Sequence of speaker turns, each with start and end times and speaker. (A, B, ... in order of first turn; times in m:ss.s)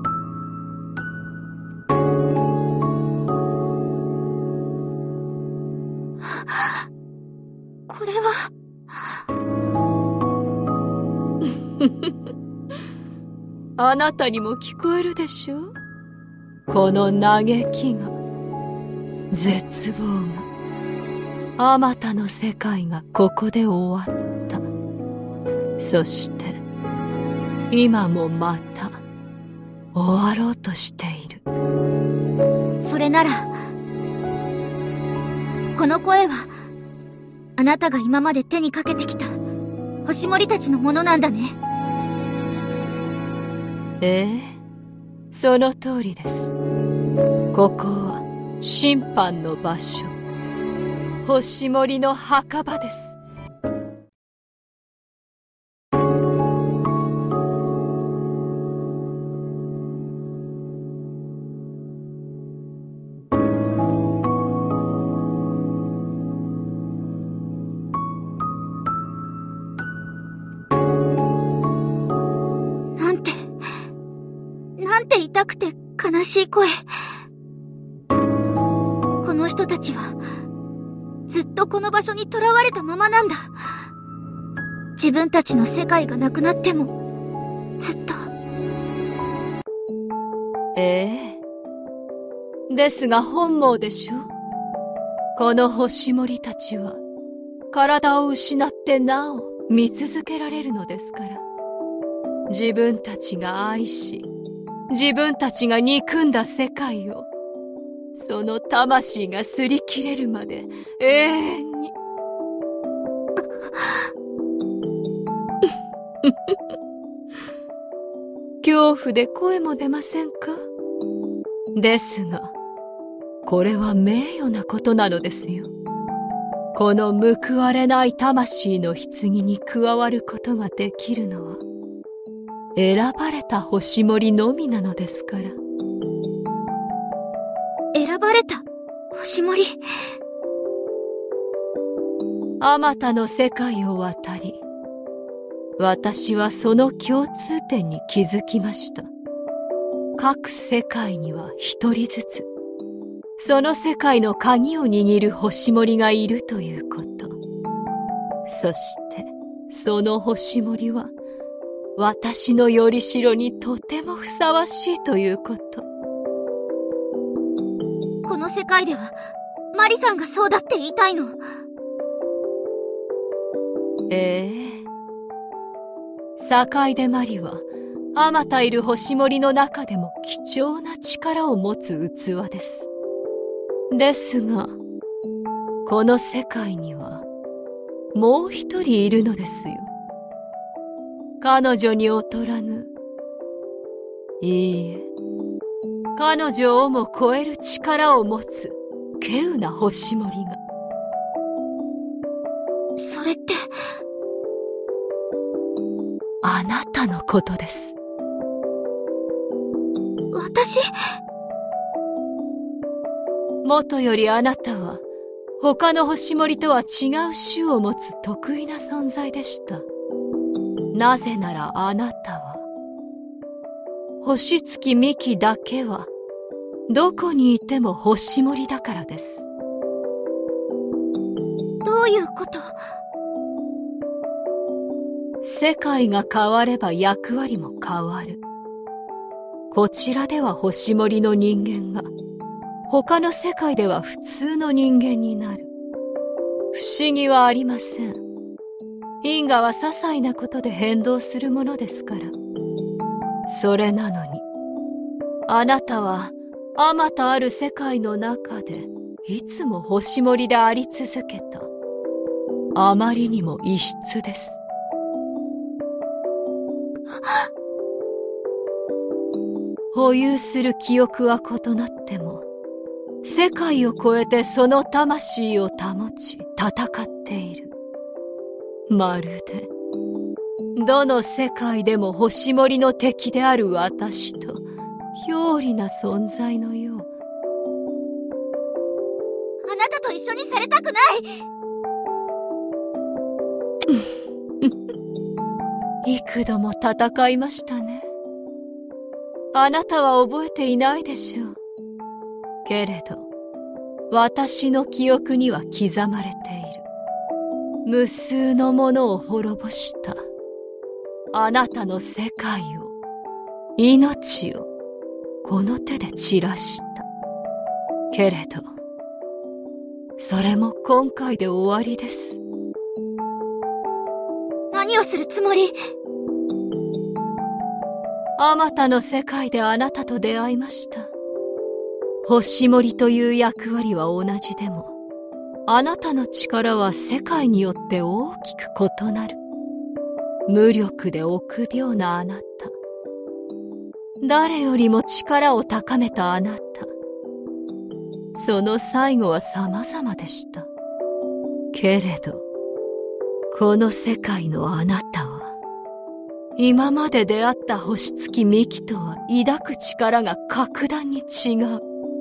0:07.9-0:08.5 A
0:11.8-0:12.1 B
0:13.8-0:15.8 B
0:16.7-0:18.2 B
0:19.3-0:20.5 B
0:21.6-0:24.7 B
0:25.8-0:26.6 B
0:27.7-0:29.0 B
0:29.9-0:31.4 B
0:32.8-0:33.5 A
0:35.8-0:36.5 A
0:37.6-0:39.3 A
0:40.0-0:41.6 A
0:44.0-0:44.6 B
0:45.3-0:46.5 B
0:47.5-0:50.1 B
0:51.2-0:53.2 B
1:13.0-1:13.4 A
1:14.8-1:16.8 A
1:19.2-1:20.2 A
1:21.3-1:23.5 A
1:25.0-1:26.9 A
1:27.8-1:28.3 A
1:30.8-1:31.4 B
1:32.7-1:34.3 B
1:35.4-1:37.0 B
1:37.7-1:41.4 B
1:42.5-1:44.3 B
1:44.9-1:47.3 B
1:48.2-1:51.9 B
1:56.2-1:56.6 B
1:58.6-2:00.7 B
2:01.7-2:02.5 B
2:03.5-2:05.7 B
2:06.7-2:11.6 B
2:12.8-2:15.6 B
2:17.9-2:19.8 A
2:22.6-2:24.6 B
2:25.8-2:29.1 B
2:30.2-2:32.5 B
2:33.4-2:37.4 B
2:38.5-2:41.1 B
2:42.0-2:45.8 B
2:48.3-2:49.2 A
2:49.7-2:51.4 A
2:54.1-2:54.8 B
2:56.4-3:02.9 B
3:03.9-3:04.8 B
3:05.8-3:07.3 B
3:08.1-3:09.9 B
3:11.4-3:12.9 B
3:14.4-3:15.1 B
3:16.2-3:20.6 B
3:23.0-3:23.7 A
3:26.4-3:27.9 B
3:30.3-3:30.9 A
3:33.6-3:35.0 B
3:35.6-3:39.9 B
3:40.9-3:42.6 B
3:44.2-3:46.1 B
3:46.9-3:49.5 B
3:51.8-3:52.8 A
3:55.4-3:58.4 B
3:59.7-4:02.1 B
4:02.9-4:05.7 B
4:06.7-4:08.2 B
4:09.2-4:12.4 B
4:13.5-4:14.4 B
4:15.5-4:21.7 B
4:22.8-4:24.6 B
4:29.9-4:32.5 B
4:33.2-4:37.7 B
4:38.9-4:39.7 B
4:40.8-4:44.6 B
4:45.2-4:47.1 B
4:49.6-4:51.3 A
4:56.0-4:58.1 B
4:59.5-5:01.6 B
5:02.6-5:03.3 B
5:04.1-5:06.8 B
5:07.8-5:10.2 B
5:11.3-5:12.9 B
5:13.8-5:14.7 B
5:15.4-5:17.1 B
5:18.1-5:18.7 B
5:20.2-5:22.4 B
5:24.7-5:25.8 A
5:28.4-5:31.1 B
5:32.2-5:34.9 B
5:35.7-5:39.4 B
5:40.5-5:42.7 B
5:44.2-5:46.9 B
5:48.4-5:50.7 B
5:51.7-5:52.4 B
5:53.5-5:55.5 B
5:56.6-6:01.8 B